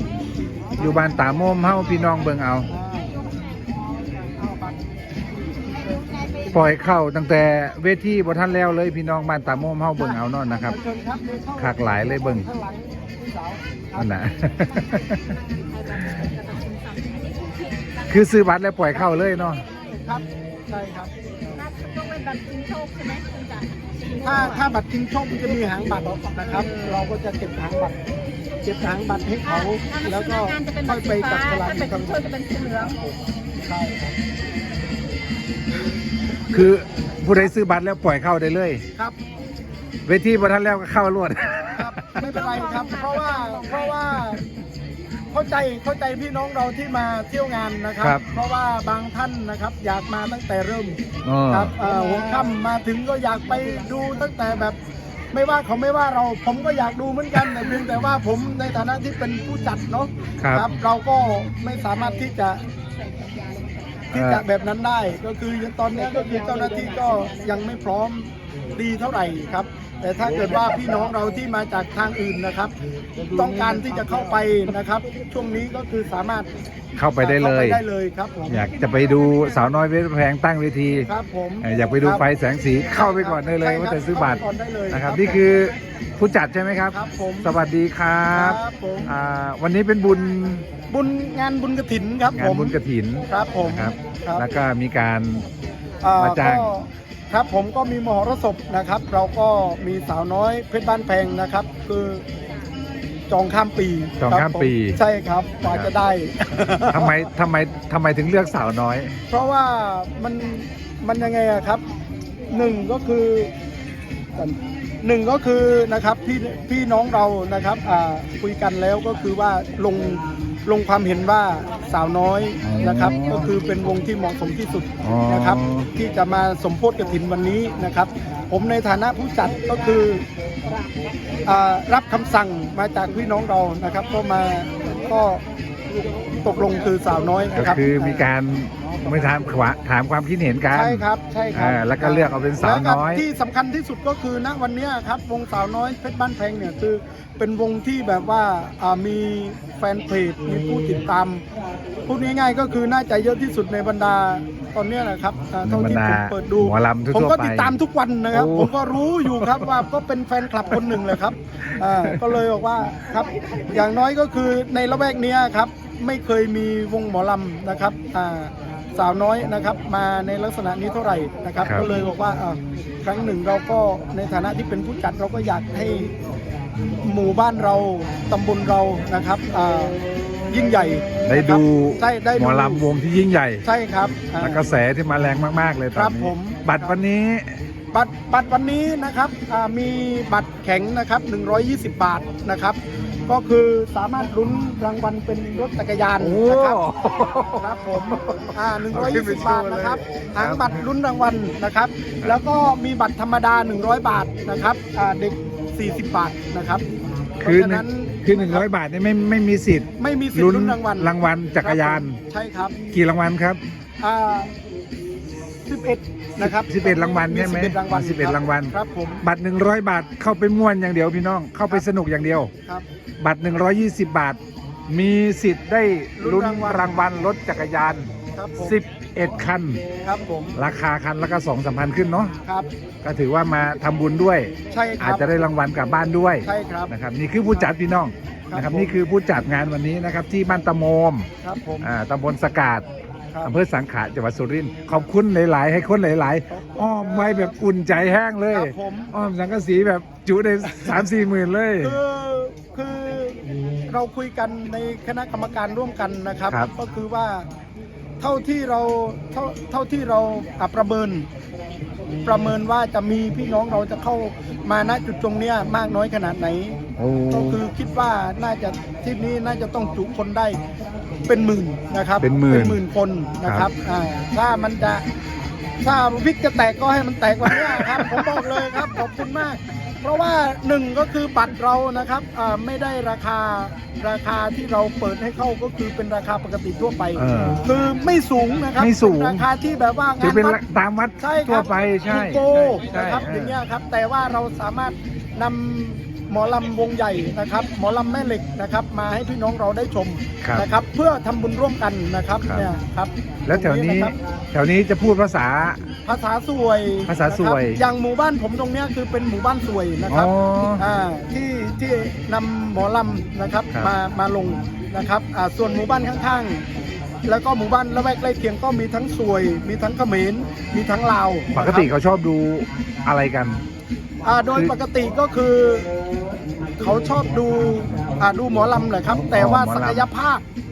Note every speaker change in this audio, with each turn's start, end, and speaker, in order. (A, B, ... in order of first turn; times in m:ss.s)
0:00.8-0:02.7 A
0:02.7-0:03.2 B
0:04.4-0:04.8 B
0:06.5-0:10.8 A
0:10.7-0:14.1 B
0:11.6-0:12.5 A
0:14.0-0:15.3 A
0:15.5-0:18.0 C
0:18.1-0:19.6 A
0:19.8-0:21.1 B
0:21.6-0:24.6 C
0:24.2-0:28.0 B
0:28.6-0:32.2 B
0:29.5-0:33.0 C
0:33.6-0:34.0 B
0:36.5-0:38.8 A
0:40.1-0:42.2 A
0:41.7-0:44.4 B
0:42.3-0:43.5 C
0:45.3-0:51.0 B
0:51.2-0:51.7 A
0:51.5-0:54.8 B
0:55.3-1:02.6 B
1:00.4-1:00.7 A
1:03.2-1:03.6 C
1:04.1-1:12.7 B
1:04.1-1:04.4 A
1:13.3-1:16.5 B
1:17.0-1:17.8 A
1:17.2-1:18.7 B
1:18.5-1:21.1 A
1:21.1-1:22.2 B
1:21.6-1:30.7 A
1:22.9-1:25.4 B
1:26.9-1:27.5 B
1:28.3-1:29.1 B
1:30.9-1:32.8 B
1:32.4-1:35.5 A
1:33.3-1:34.5 B
1:36.0-1:42.2 B
1:36.2-1:36.7 A
1:43.3-1:47.1 B
1:44.2-1:45.0 A
1:45.6-1:45.9 A
1:46.9-1:49.1 A
1:49.3-1:51.8 B
1:52.5-1:53.5 B
1:54.4-2:10.2 B
2:02.6-2:03.5 A
2:05.0-2:05.9 A
2:11.4-2:15.4 B
2:16.4-2:18.2 B
2:17.6-2:23.2 A
2:20.7-2:31.4 B
2:32.1-2:56.1 B
2:35.6-2:37.8 A
2:38.3-2:39.7 A
2:41.9-2:42.4 A
2:57.0-3:00.0 B
3:00.5-3:02.8 B
3:01.2-3:03.6 A
3:03.6-3:04.6 B
3:04.4-3:07.5 A
3:06.0-3:07.0 B
3:07.9-3:16.8 B
3:16.2-3:20.9 A
3:17.6-3:26.8 B
3:27.4-3:28.6 B
3:27.4-3:32.2 A
3:30.0-3:32.8 B
3:32.9-3:33.6 A
3:34.0-3:34.5 B
3:35.7-3:39.2 B
3:36.4-3:42.5 A
3:43.2-3:44.4 A
3:44.9-3:49.8 A
3:46.2-3:47.0 B
3:48.4-3:48.8 B
3:50.0-3:50.6 B
3:50.6-3:52.3 A
3:53.0-4:01.3 A
3:54.7-3:55.3 B
3:56.4-3:56.9 B
3:58.5-3:59.0 B
4:01.4-4:01.9 B
4:01.8-4:02.8 A
4:03.4-4:12.0 A
4:06.5-4:07.6 B
4:08.5-4:09.2 B
4:11.8-4:13.4 B
4:13.9-4:17.5 B
4:18.2-4:21.3 B
4:22.2-4:26.8 B
4:27.0-4:27.6 A
4:27.3-4:30.6 B
4:31.3-4:35.0 B
4:32.2-4:32.8 A
4:35.8-4:50.6 B
4:37.7-4:38.8 A
4:47.2-4:47.7 A
4:48.8-4:49.4 A
4:50.2-4:53.6 A
4:51.2-5:04.2 B
5:02.4-5:02.7 A
5:03.5-5:05.8 A
5:06.1-5:16.6 B
5:07.1-5:07.8 A
5:10.1-5:10.8 A
5:17.2-5:21.9 B
5:21.5-5:23.6 A
5:24.2-5:25.9 B
5:26.8-5:30.4 B
5:29.3-5:30.1 A